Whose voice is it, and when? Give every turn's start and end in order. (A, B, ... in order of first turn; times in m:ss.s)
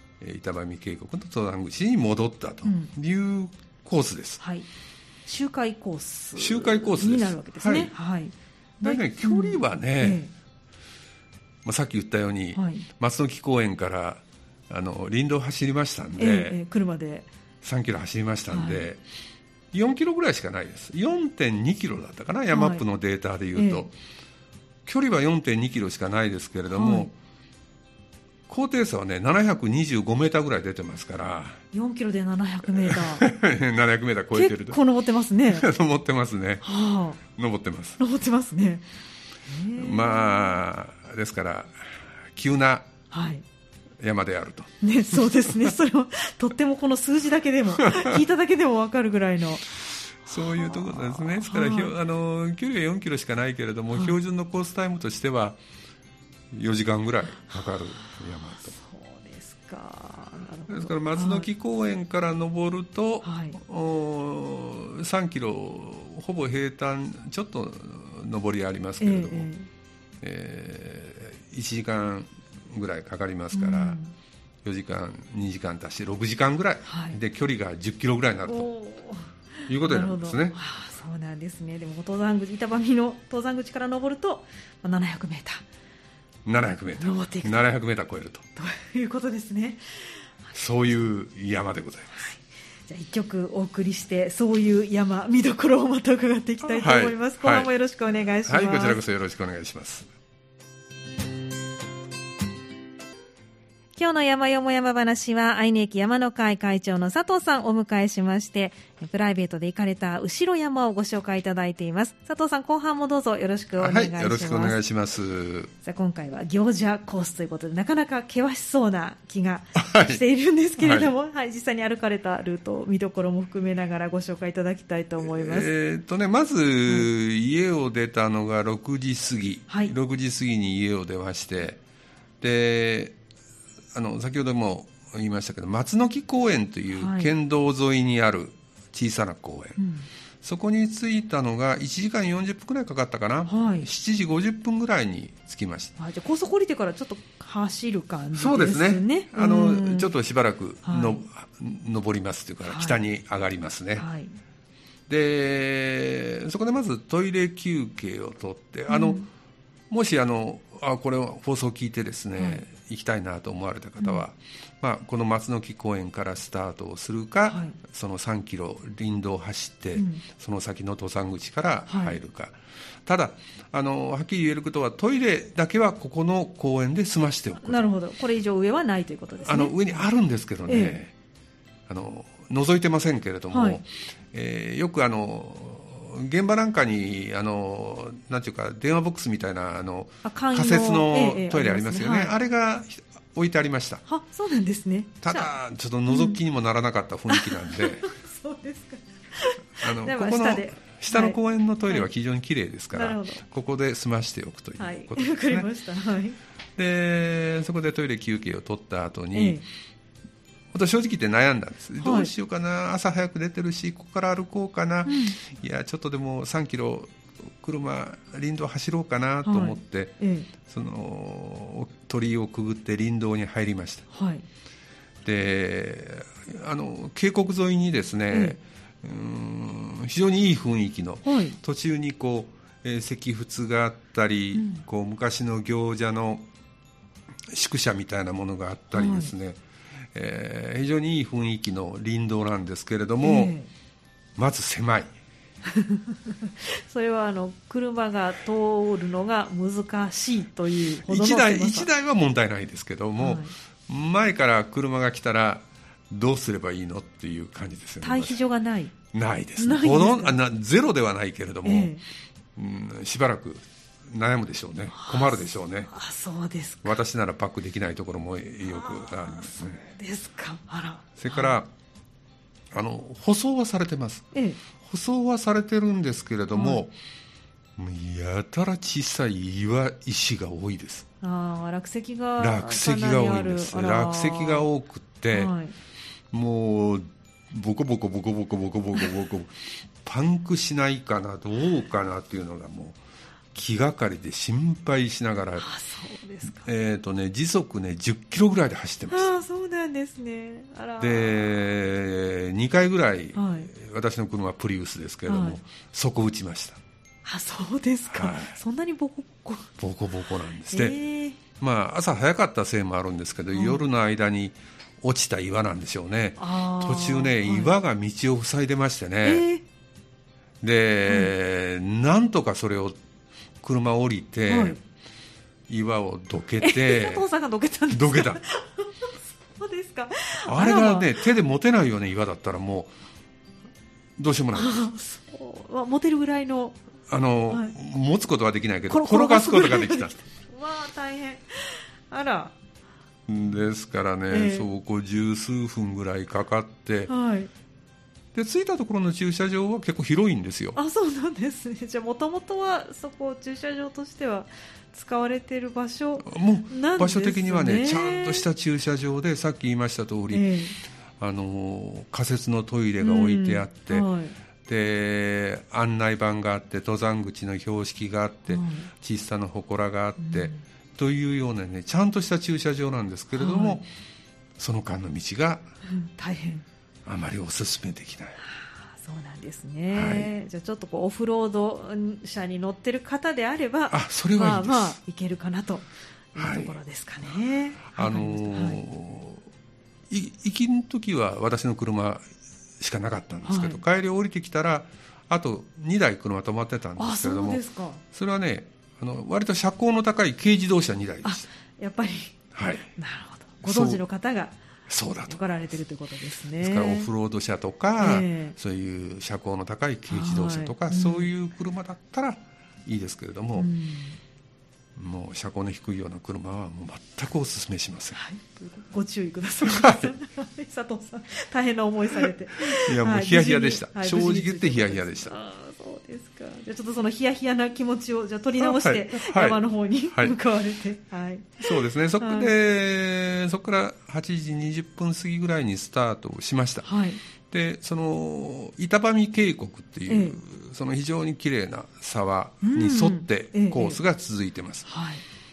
0:00.2-0:04.4 A
0:02.6-0:02.9 B
0:04.4-0:04.7 B
0:05.3-0:10.3 B
0:06.4-0:07.9 A
0:08.8-0:10.2 A
0:11.6-0:16.6 A
0:12.5-0:12.9 B
0:16.2-0:17.3 B
0:17.6-0:19.0 A
0:18.5-0:18.8 B
0:19.7-0:23.9 A
0:22.5-0:22.8 B
0:23.6-0:23.9 B
0:24.8-0:27.1 A
0:26.7-0:27.1 B
0:28.5-0:31.6 A
0:31.7-0:33.2 B
0:32.8-0:34.8 A
0:34.3-0:35.7 B
0:35.5-0:36.6 A
0:36.6-0:37.2 B
0:37.3-0:38.0 A
0:38.0-0:38.8 B
0:39.5-0:40.6 B
0:39.8-0:42.9 A
0:43.1-0:43.4 B
0:44.0-0:45.8 A
0:44.8-0:49.7 B
0:47.8-0:48.2 A
0:50.2-0:55.6 A
0:50.3-0:51.9 B
0:53.9-0:54.2 B
0:56.5-0:58.8 A
0:58.6-1:01.5 B
1:00.7-1:09.5 A
1:03.2-1:03.6 B
1:09.0-1:09.7 B
1:10.2-1:14.0 A
1:13.5-1:14.1 B
1:14.6-1:18.7 A
1:16.9-1:17.2 B
1:18.5-1:25.6 B
1:19.7-1:20.6 A
1:26.4-1:28.4 A
1:27.0-1:27.7 B
1:28.6-1:30.2 B
1:30.5-1:32.3 A
1:32.2-1:39.0 B
1:36.6-1:37.7 A
1:38.5-1:40.1 A
1:44.0-1:54.8 B
1:53.8-1:55.7 A
1:55.8-2:05.7 B
1:59.8-2:00.2 A
2:00.8-2:01.1 A
2:05.2-2:11.8 A
2:12.4-2:13.2 A
2:13.9-2:19.8 A
2:16.9-2:17.3 B
2:19.8-2:20.1 B
2:20.4-2:25.9 A
2:23.5-2:23.9 B
2:26.0-2:30.1 B
2:28.3-2:34.0 A
2:30.8-2:31.2 B
2:32.6-2:33.0 B
2:34.0-2:34.4 B
2:35.1-2:39.2 A
2:38.9-2:39.3 B
2:39.9-2:57.8 A
2:42.4-2:42.6 B
2:47.5-2:47.8 B
2:50.0-2:50.2 B
2:51.9-2:52.2 B
2:57.6-2:59.8 B
2:59.4-3:01.1 A
3:00.7-3:01.0 B
3:01.9-3:14.0 A
3:03.5-3:03.8 B
3:10.2-3:12.4 B
3:14.1-3:15.5 B
3:15.2-3:18.1 A
3:16.1-3:16.4 B
3:17.3-3:21.4 B
3:19.8-3:25.7 A
3:22.9-3:23.4 B
3:24.8-3:26.4 B
3:26.8-3:29.6 A
3:29.3-3:29.6 B
3:30.7-3:44.1 A
3:32.0-3:32.3 B
3:35.1-3:35.4 B
3:39.4-3:40.5 B
3:44.1-3:44.4 B
3:45.2-3:56.5 A
3:48.3-3:48.6 B
3:51.2-3:51.6 B
3:54.6-3:54.8 B
3:57.5-3:59.6 A
3:58.9-3:59.3 B
4:00.1-4:03.5 A
4:03.2-4:03.7 B
4:04.4-4:05.1 A
4:05.7-4:11.9 B
4:11.0-4:18.4 A
4:13.2-4:13.5 B
4:18.0-4:18.9 B
4:19.1-4:21.9 A
4:19.6-4:20.4 B
4:21.6-4:22.0 B
4:22.6-4:25.9 A
4:24.9-4:27.0 B
4:26.8-4:29.9 A
4:28.6-4:31.6 B
4:31.2-4:31.7 A
4:32.7-4:34.3 A
4:34.3-4:34.6 B
4:34.8-4:36.9 A
4:36.5-4:36.8 B
4:37.8-4:41.1 A
4:41.2-4:44.7 B
4:42.4-4:45.5 A
4:45.3-4:45.8 B
4:46.3-4:53.0 A
4:53.5-4:55.7 A
4:55.6-4:56.7 B
4:56.5-4:59.3 A
4:59.1-5:01.5 B
5:01.0-5:06.8 A
5:03.4-5:03.7 B
5:05.3-5:05.6 B
5:07.2-5:09.7 B
5:08.1-5:08.6 A
5:09.8-5:11.0 A
5:10.7-5:11.4 B
5:11.6-5:19.4 A
5:13.5-5:13.9 B
5:16.4-5:17.8 B
5:19.2-5:19.6 B
5:20.6-5:23.0 A
5:23.6-5:24.8 A
5:24.5-5:24.8 B
5:25.7-5:27.2 A
5:26.6-5:31.2 B
5:27.9-5:28.4 A
5:30.4-5:32.9 A
5:34.2-5:34.8 A
5:34.5-5:36.8 B
5:37.1-5:40.1 A
5:38.9-5:42.5 B
5:43.3-5:47.1 A
5:44.3-5:44.7 B
5:47.1-5:47.5 B
5:48.3-5:50.8 A
5:50.8-5:58.5 B
5:56.2-6:00.5 A
6:00.3-6:00.8 B
6:01.2-6:04.1 A
6:03.0-6:04.3 B
6:04.6-6:13.8 A
6:08.5-6:08.9 B
6:10.2-6:10.6 B
6:13.3-6:13.8 B
6:14.6-6:15.7 A
6:15.9-6:16.6 B
6:17.0-6:18.4 A
6:18.4-6:28.8 B
6:19.9-6:20.3 A
6:23.9-6:25.0 A
6:26.4-6:26.8 A
6:27.9-6:29.4 A
6:30.1-6:32.2 A
6:32.8-6:41.5 A
6:33.4-6:33.8 B
6:37.0-6:38.0 B
6:41.2-6:42.4 B
6:42.5-6:42.9 A
6:43.0-6:44.6 B
6:43.6-6:44.0 A
6:44.9-6:45.4 A
6:45.3-6:47.1 B
6:46.6-6:53.7 A
6:48.0-6:48.6 B
6:50.1-6:51.3 B
6:53.6-6:54.2 B
6:55.0-6:58.2 A
6:58.2-7:12.5 B
6:59.6-7:00.2 A
7:02.1-7:05.4 A
7:08.6-7:10.4 A
7:11.6-7:16.9 A
7:16.8-7:17.2 B
7:17.5-7:24.9 A
7:20.1-7:20.4 B
7:22.6-7:24.0 B
7:24.9-7:25.2 B